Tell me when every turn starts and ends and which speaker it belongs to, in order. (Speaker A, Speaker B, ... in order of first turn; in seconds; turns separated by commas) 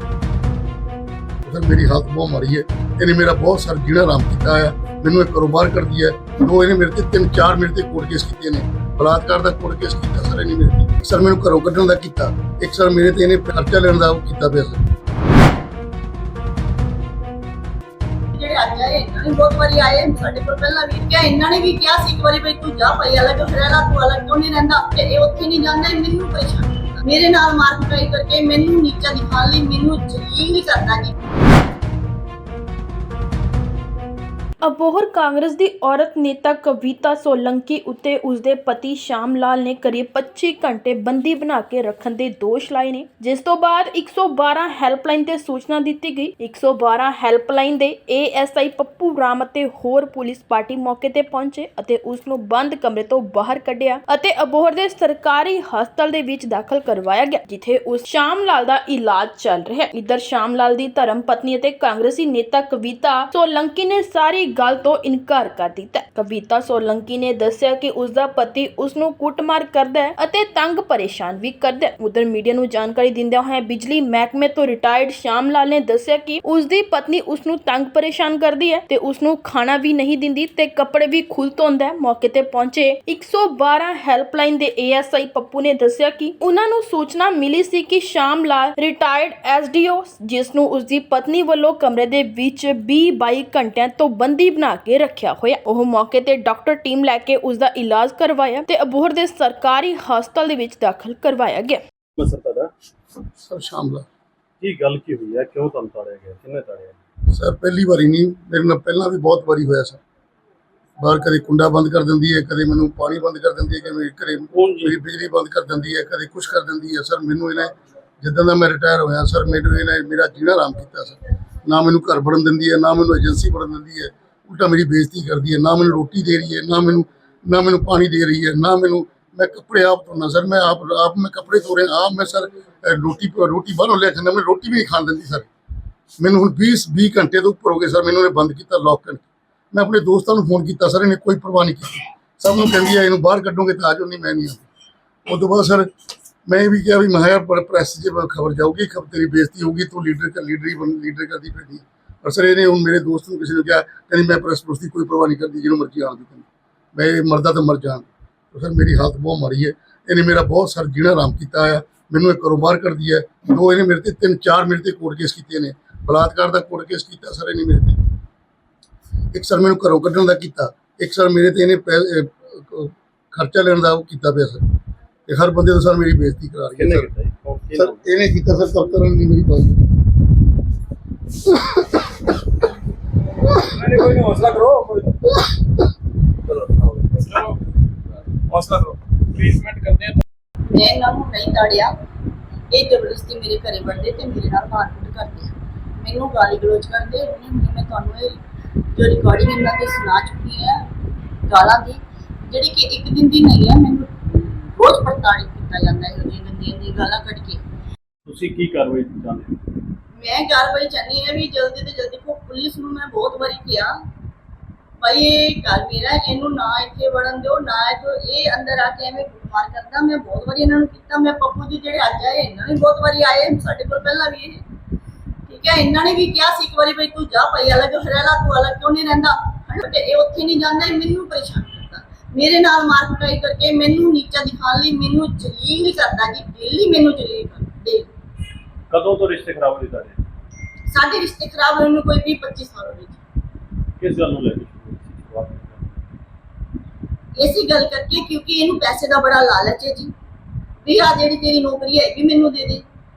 Speaker A: 1.4-14.8, Speaker B: 18.3-31.1, Speaker C: 34.6-101.8, Speaker D: 102.2-102.7, Speaker A: 103.4-104.0, Speaker D: 104.6-107.0, Speaker A: 107.3-110.0, Speaker A: 111.0-135.5, Speaker D: 114.5-115.0, Speaker A: 136.2-144.7, Speaker A: 145.3-145.9, Speaker A: 146.5-168.0, Speaker A: 169.3-174.6, Speaker A: 175.3-177.1, Speaker D: 176.8-178.0, Speaker A: 177.7-179.9, Speaker E: 183.7-185.2, Speaker D: 186.7-187.2, Speaker E: 187.2-187.6, Speaker E: 188.4-190.2, Speaker B: 190.7-191.9, Speaker B: 192.7-198.4, Speaker B: 198.9-200.8, Speaker B: 201.5-207.6, Speaker D: 208.2-209.5, Speaker B: 210.2-213.9, Speaker B: 215.0-224.6, Speaker B: 225.5-238.1, Speaker D: 238.9-240.2, Speaker B: 240.9-243.2, Speaker D: 244.0-246.0, Speaker B: 247.4-250.1, Speaker B: 250.8-252.8